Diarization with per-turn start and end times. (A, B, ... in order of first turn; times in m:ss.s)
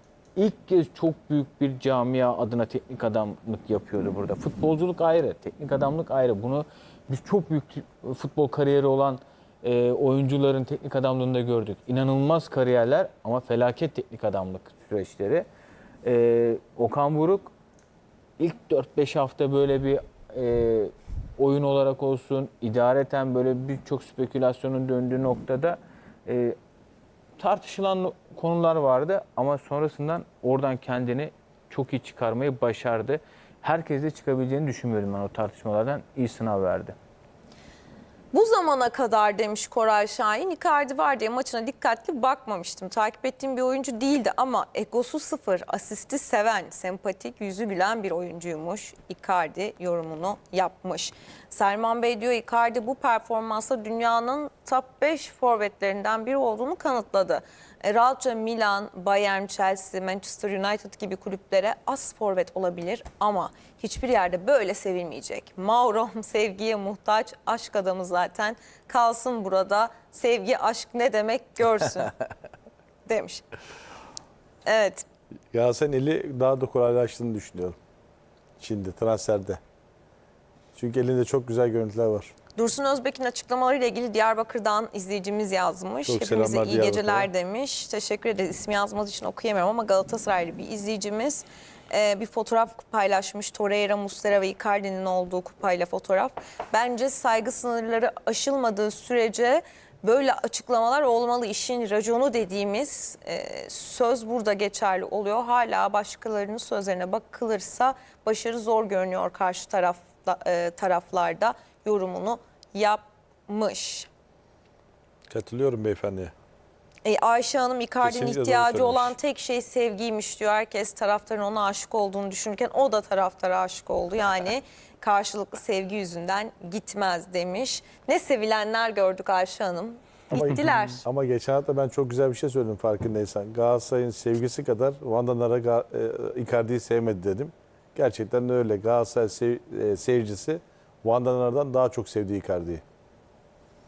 0:00.4-0:15.4 A
0:16.0-0:17.5 A
0:18.4-0:26.5 A
0:27.4-0:37.0 A
0:38.3-1:12.1 B
1:13.0-1:13.4 B
1:14.6-1:15.0 B
1:15.5-1:17.8 C
1:18.6-1:19.6 C
1:20.7-1:22.3 C
1:22.5-1:54.1 B
1:26.0-1:27.3 C
1:55.3-1:56.3 C
1:57.0-2:11.0 B
1:58.0-1:59.2 C
2:10.3-2:22.8 C